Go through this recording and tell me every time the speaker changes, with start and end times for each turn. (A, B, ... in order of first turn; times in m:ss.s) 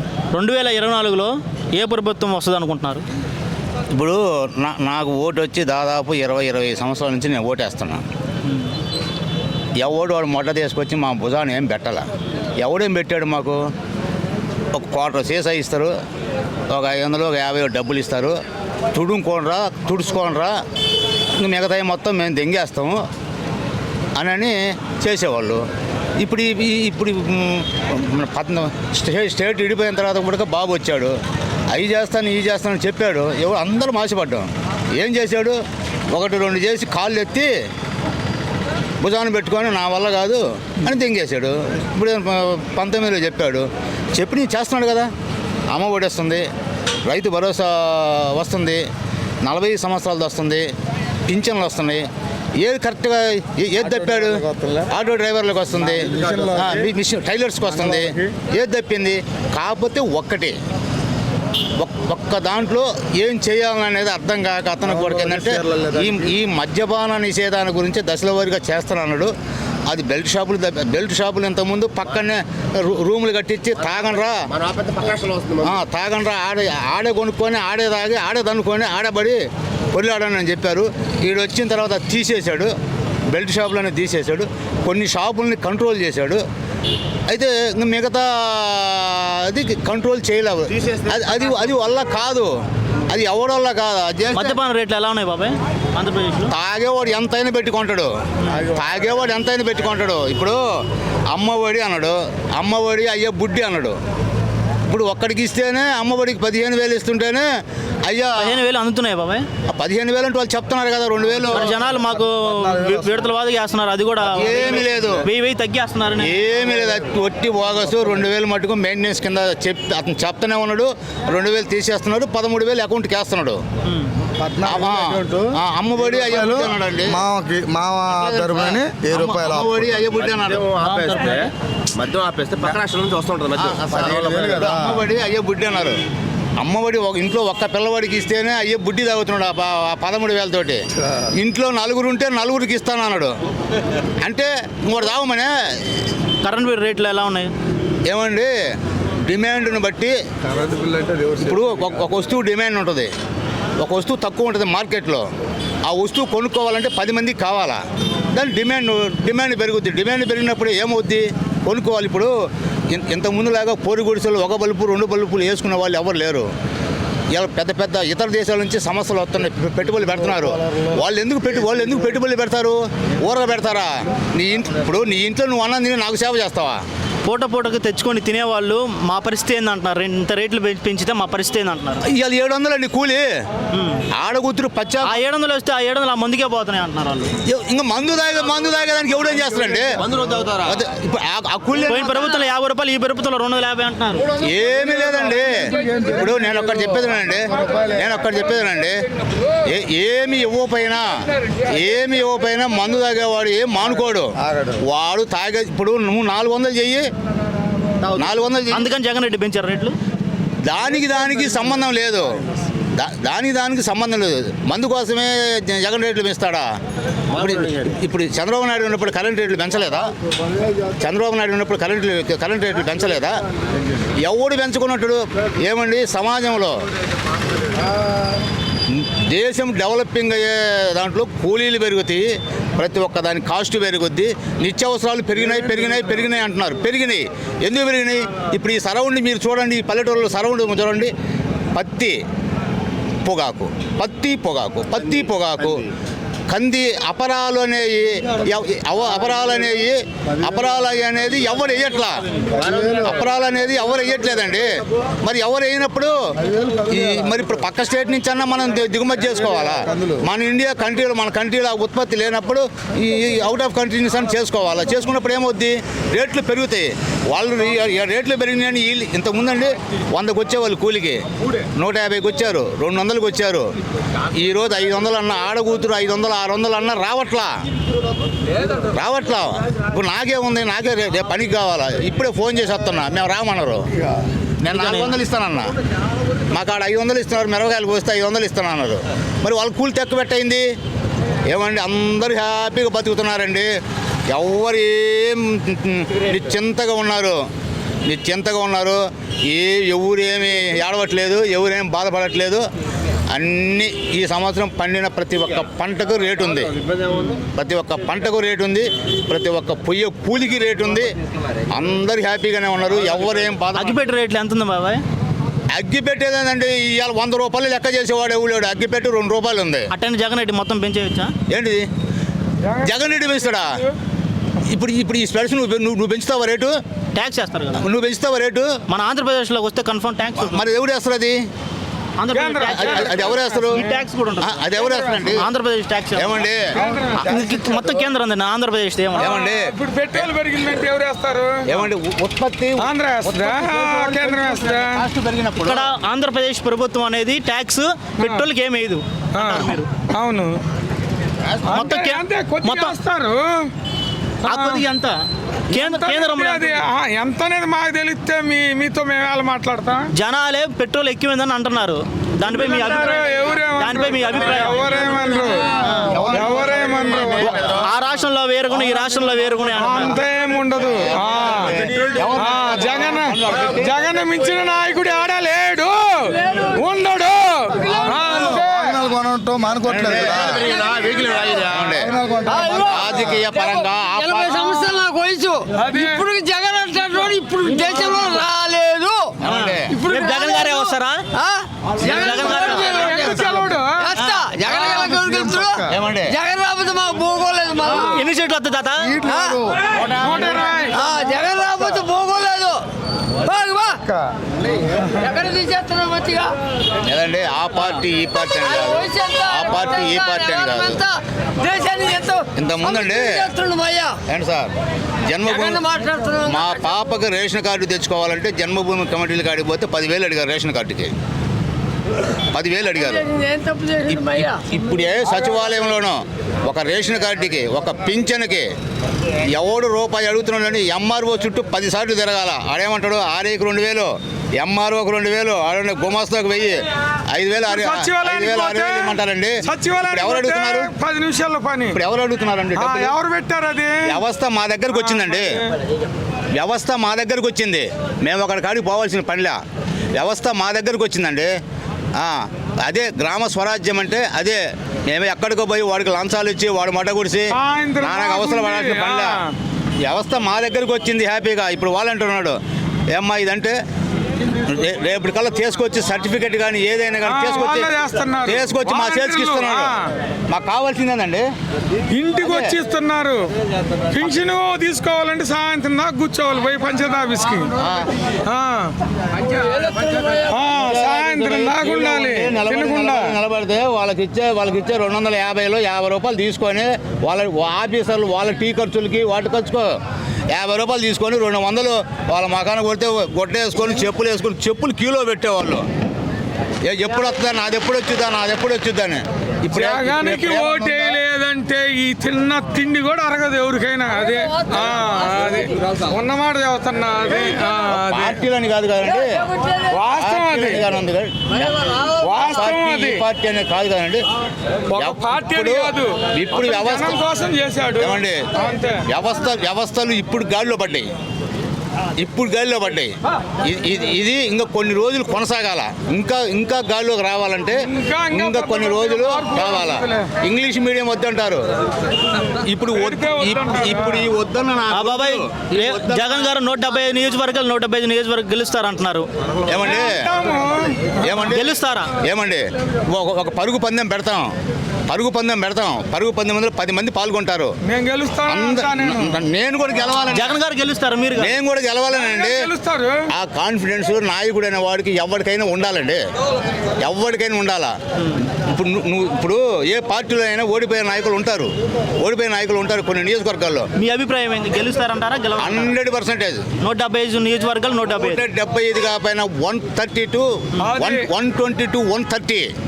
0:00.3-0:03.0 A
0:03.9-0:08.0 B
0:09.8-0:12.0 B
0:12.6-0:13.6 B
0:14.7-0:15.9 B
0:16.7-0:18.4 B
0:18.9-0:20.6 B
0:21.4-0:23.0 B
0:24.2-0:25.6 B
0:26.2-0:31.1 B
0:31.7-0:35.6 B
0:36.1-0:37.5 B
0:39.0-0:45.1 B
0:45.7-0:46.4 B
0:47.1-0:48.8 B
0:49.4-0:50.7 B
0:51.3-0:52.0 B
0:52.6-1:00.6 B
1:01.8-1:09.3 B
1:09.9-1:14.4 B
1:14.6-1:15.6 C
1:15.6-1:19.4 B
1:19.9-1:22.7 B
1:23.3-1:26.4 B
1:27.3-1:32.5 B
1:33.1-1:34.6 B
1:34.3-1:36.5 A
1:36.5-1:40.6 B
1:41.3-1:44.0 B
1:44.9-1:47.5 B
1:48.0-1:48.6 B
1:48.4-1:49.5 A
1:49.7-1:51.8 B
1:51.5-1:56.3 A
1:54.3-1:55.3 B
1:56.2-2:03.6 B
2:04.4-2:05.5 D
2:04.6-2:07.2 B
2:06.2-2:09.8 D
2:08.1-2:10.8 B
2:10.6-2:11.4 C
2:10.8-2:11.5 A
2:11.9-2:13.7 C
2:13.5-2:16.0 B
2:14.0-2:15.0 D
2:16.6-2:23.3 B
2:24.2-2:25.5 B
2:26.4-2:27.5 A
2:28.1-2:28.5 B
2:29.2-2:30.2 B
2:31.3-2:33.1 B
2:33.8-2:35.3 B
2:35.8-2:42.3 B
2:42.9-2:46.5 B
2:47.3-2:56.8 B
2:57.2-3:02.0 A
3:02.0-3:03.3 B
3:03.7-3:04.0 A
3:04.1-3:05.2 B
3:05.0-3:07.3 A
3:07.4-3:12.4 B
3:11.8-3:14.3 A
3:14.4-3:19.0 B
3:19.7-3:27.0 B
3:28.0-3:28.9 B
3:28.7-3:30.0 A
3:30.7-3:32.3 B
3:33.0-3:36.6 B
3:37.3-3:40.1 B
3:41.0-3:43.4 B
3:44.2-3:46.8 B
3:48.9-4:01.1 B
4:01.7-4:02.2 B
4:03.2-4:05.8 B
4:06.5-4:12.2 B
4:12.6-4:13.0 D
4:12.9-4:14.7 B
4:15.2-4:16.1 B
4:16.7-4:31.2 B
4:31.7-4:33.7 B
4:34.2-4:37.6 B
4:38.8-4:43.8 B
4:44.6-4:45.7 B
4:44.7-4:45.2 A
4:46.5-4:50.7 B
4:51.5-4:53.7 B
4:54.3-4:57.4 B
4:58.1-5:02.6 B
5:03.3-5:06.8 B
5:07.3-5:11.1 B
5:11.7-5:14.0 B
5:13.7-5:15.0 A
5:15.7-5:19.9 B
5:19.9-5:21.3 A
5:21.5-5:21.9 B
5:22.6-5:23.9 E
5:22.8-5:23.8 B
5:24.7-5:26.8 B
5:27.1-5:27.8 A
5:27.8-5:28.8 B
5:28.9-5:30.6 A
5:30.4-5:31.4 B
5:32.2-5:34.6 A
5:32.3-5:34.0 E
5:32.7-5:33.8 B
5:34.4-5:35.4 B
5:34.8-5:35.1 E
5:35.3-5:36.4 A
5:36.2-5:36.8 B
5:36.7-5:37.3 E
5:37.1-5:39.4 A
5:39.2-5:39.7 B
5:39.2-5:41.7 E
5:41.7-5:45.9 B
5:42.8-5:45.0 E
5:45.6-5:49.9 A
5:48.2-5:48.4 E
5:49.4-5:50.6 E
5:51.4-5:52.0 B
5:51.7-5:53.7 E
5:51.7-5:53.0 A
5:54.4-5:54.8 E
5:54.4-5:55.2 A
5:55.7-5:56.8 A
5:55.7-6:00.1 E
6:00.1-6:03.2 A
6:02.4-6:07.5 E
6:03.8-6:04.9 A
6:05.8-6:06.2 A
6:06.1-6:06.8 B
6:07.4-6:10.2 A
6:09.8-6:19.0 E
6:11.5-6:13.9 B
6:18.5-6:20.6 D
6:19.8-6:24.8 B
6:22.0-6:22.7 D
6:22.5-6:29.4 F
6:25.7-6:26.3 E
6:27.9-6:28.2 E
6:29.4-6:30.0 B
6:29.9-6:33.2 F
6:30.0-6:31.2 A
6:32.0-6:33.2 A
6:32.1-6:34.2 E
6:34.0-6:38.2 F
6:34.2-6:34.4 A
6:34.7-6:35.1 E
6:35.0-6:35.8 D
6:35.9-6:36.4 B
6:37.9-6:39.2 A
6:39.0-6:39.8 D
6:39.3-6:39.6 F
6:39.9-6:40.5 B
6:40.2-6:41.0 E
6:40.9-6:42.8 F
6:43.4-6:44.0 F
6:45.1-6:46.5 F
6:47.0-6:51.0 B
6:48.6-6:54.2 F
6:52.6-6:53.5 B
6:54.3-6:54.7 B
6:55.2-6:55.8 B
6:55.4-6:56.7 F
6:56.4-7:01.1 B
7:02.3-7:03.3 B
7:03.3-7:04.6 F
7:04.1-7:08.7 B
7:09.4-7:20.9 B
7:17.6-7:22.0 E
7:21.9-7:23.2 B
7:22.7-7:24.2 E
7:24.1-7:25.6 B
7:24.9-7:25.7 E
7:26.5-7:29.6 B
7:30.1-7:31.5 B
7:32.2-7:39.4 B
7:37.5-7:39.5 E
7:40.0-7:42.6 B
7:43.1-7:43.8 B
7:44.6-7:50.0 B
7:47.2-7:50.1 E
7:50.5-7:51.4 B
7:52.1-7:53.5 E
7:52.4-7:52.8 B
7:54.1-7:57.7 E
7:57.8-7:58.1 B
7:58.4-7:58.9 E
8:00.4-8:03.4 E
8:00.7-8:09.9 B
8:10.5-8:15.8 B
8:16.8-8:21.2 B
8:19.7-8:28.4 E
8:27.9-8:29.5 B
8:29.9-8:30.8 E
8:30.2-8:34.2 B
8:32.2-8:33.2 E
8:34.9-8:39.0 E
8:34.9-8:37.2 B
8:38.0-8:38.4 B
8:39.0-8:41.1 B
8:42.2-8:51.6 B
8:47.8-8:50.3 E
8:52.5-8:56.5 B
8:52.9-8:54.3 E
8:54.9-8:59.3 A
8:59.6-9:00.3 B
8:59.7-9:01.2 E
9:01.2-9:04.5 B
9:01.5-9:02.1 A
9:05.1-9:07.7 B
9:07.9-9:09.4 E
9:08.5-9:10.6 B
9:10.3-9:11.5 A
9:11.4-9:12.7 B
9:12.1-9:13.2 E
9:13.3-9:16.2 B
9:17.0-9:17.9 B
9:18.4-9:23.9 B
9:24.0-9:25.9 A
9:25.6-9:26.6 B
9:26.8-9:28.4 A
9:28.1-9:32.7 B
9:30.8-9:31.3 E